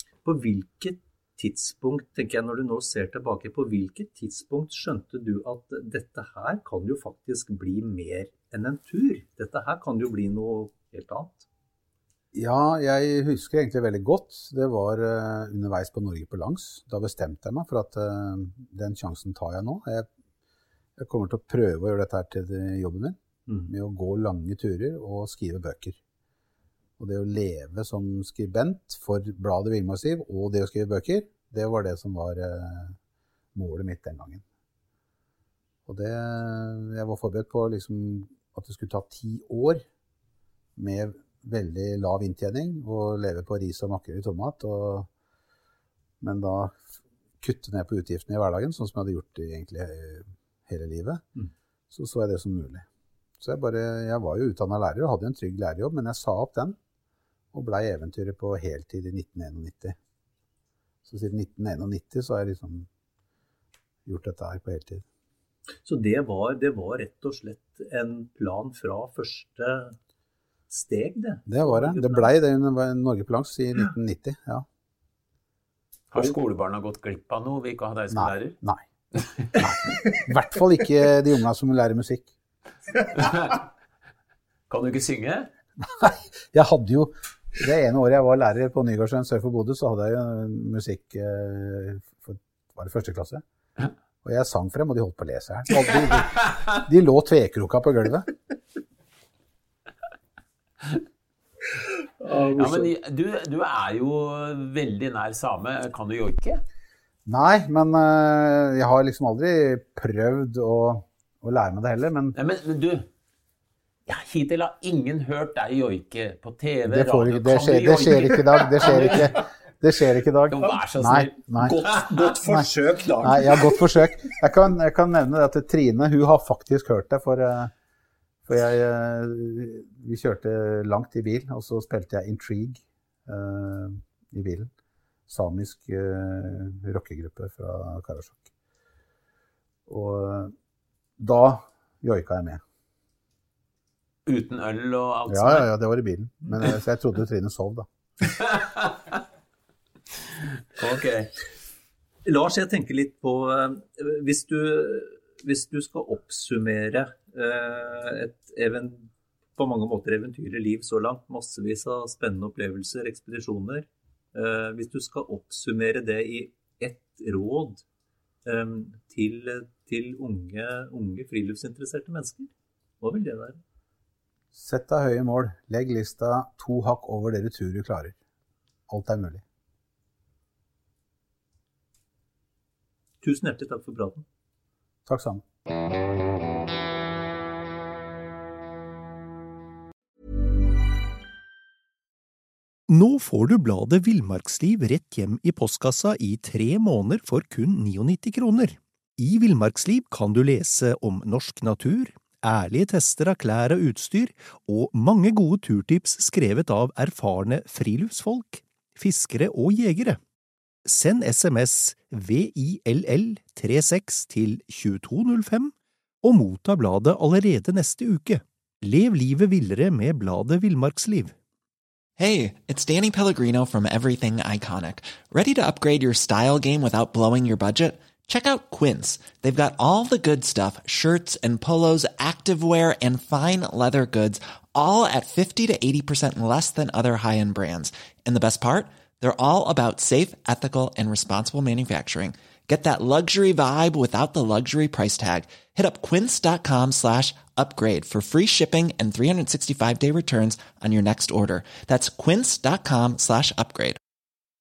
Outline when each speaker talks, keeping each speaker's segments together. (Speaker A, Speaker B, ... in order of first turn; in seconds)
Speaker A: 0.2-11.4, 65.8-70.0, 70.7-72.3, 102.2-102.9, 121.6-124.0, 152.2-167.8, 168.4-172.5, 173.0-173.6, 183.2-184.2
Speaker B: 12.3-20.1, 21.0-26.0, 27.0-33.0, 33.5-34.4, 35.9-39.8, 40.8-45.1, 46.2-51.2, 51.9-52.9, 53.4-56.8, 57.5-60.0, 61.0-62.9, 64.0-65.0, 71.5-74.7, 78.1-78.8, 79.5-82.3, 86.0-93.4, 94.2-98.3, 107.2-112.3, 116.8-121.8, 123.2-127.7, 128.5-134.7, 135.3-138.5, 139.9-140.5, 141.2-142.6, 145.3-147.9, 174.5-178.2, 178.9-179.4, 185.1-185.4
Speaker C: 76.1-78.6, 79.1-79.5, 83.1-83.7, 84.7-85.5, 102.5-106.6, 112.3-113.1, 114.0-119.3, 120.5-122.0, 144.2-145.7, 148.2-149.2, 150.3-151.3
Speaker D: 192.9-210.2, 210.8-221.3
Speaker E: 222.2-254.0